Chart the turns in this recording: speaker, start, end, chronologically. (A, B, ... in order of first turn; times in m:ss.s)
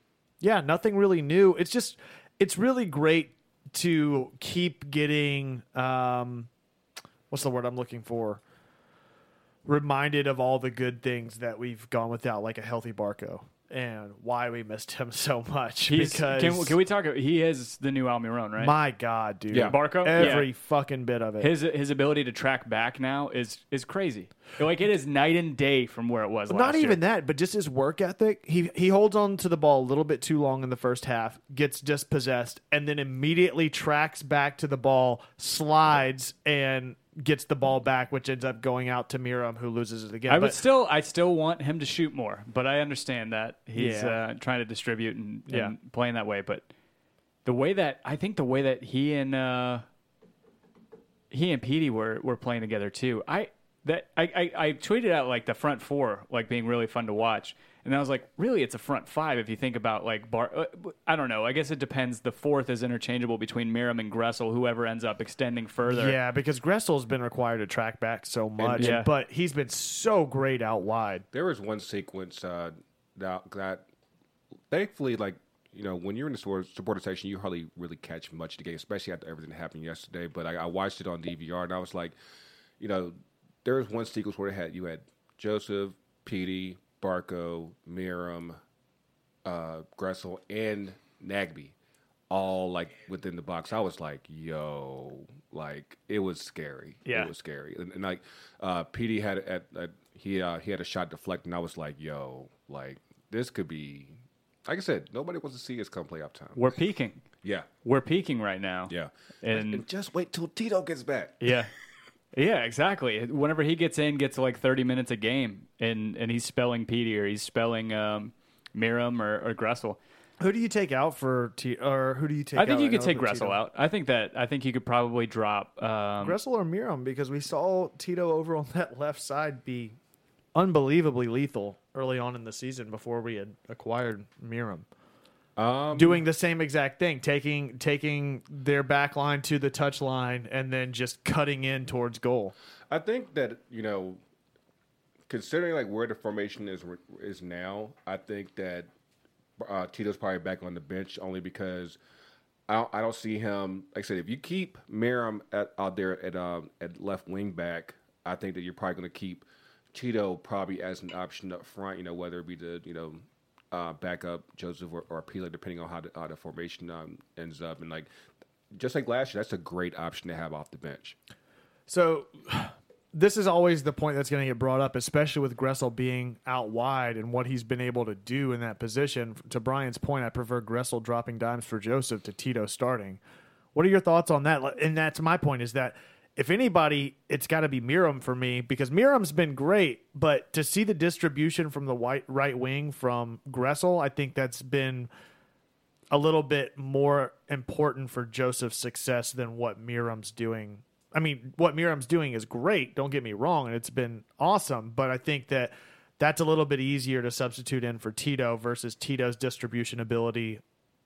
0:00.4-0:06.5 A
0:07.3-0:08.4 A
0:09.7-0:16.8 A
0:15.9-0:18.8 B
0:18.6-0:21.5 A
0:19.5-0:20.4 C
0:19.7-0:20.5 B
0:21.4-0:27.0 B
0:26.5-0:40.6 A
0:40.3-0:46.7 B
0:43.8-0:44.2 A
0:45.5-0:45.7 A
0:47.4-0:49.8 B
0:51.3-1:06.2 B
1:05.9-1:11.3 A
1:08.6-1:09.0 C
1:08.8-1:09.1 B
1:11.3-1:13.8 C
1:14.7-1:22.2 C
1:22.8-1:28.6 C
1:29.4-1:31.7 C
1:32.3-1:46.6 C
1:46.6-1:47.2 B
1:47.8-1:49.8 B
1:48.9-1:51.5 C
1:51.4-1:51.7 B
1:52.3-2:00.0 B
2:00.4-2:03.6 A
2:02.6-2:06.4 B
2:06.2-2:10.0 A
2:10.5-2:14.9 A
2:15.6-2:16.2 C
2:16.0-2:22.5 A
2:22.9-2:24.2 C
2:25.3-2:28.9 C
2:29.6-2:32.0 C
2:32.7-2:48.1 C
2:48.7-2:51.2 C
2:51.9-3:03.2 A
3:03.7-3:15.1 A
3:16.1-3:30.6 A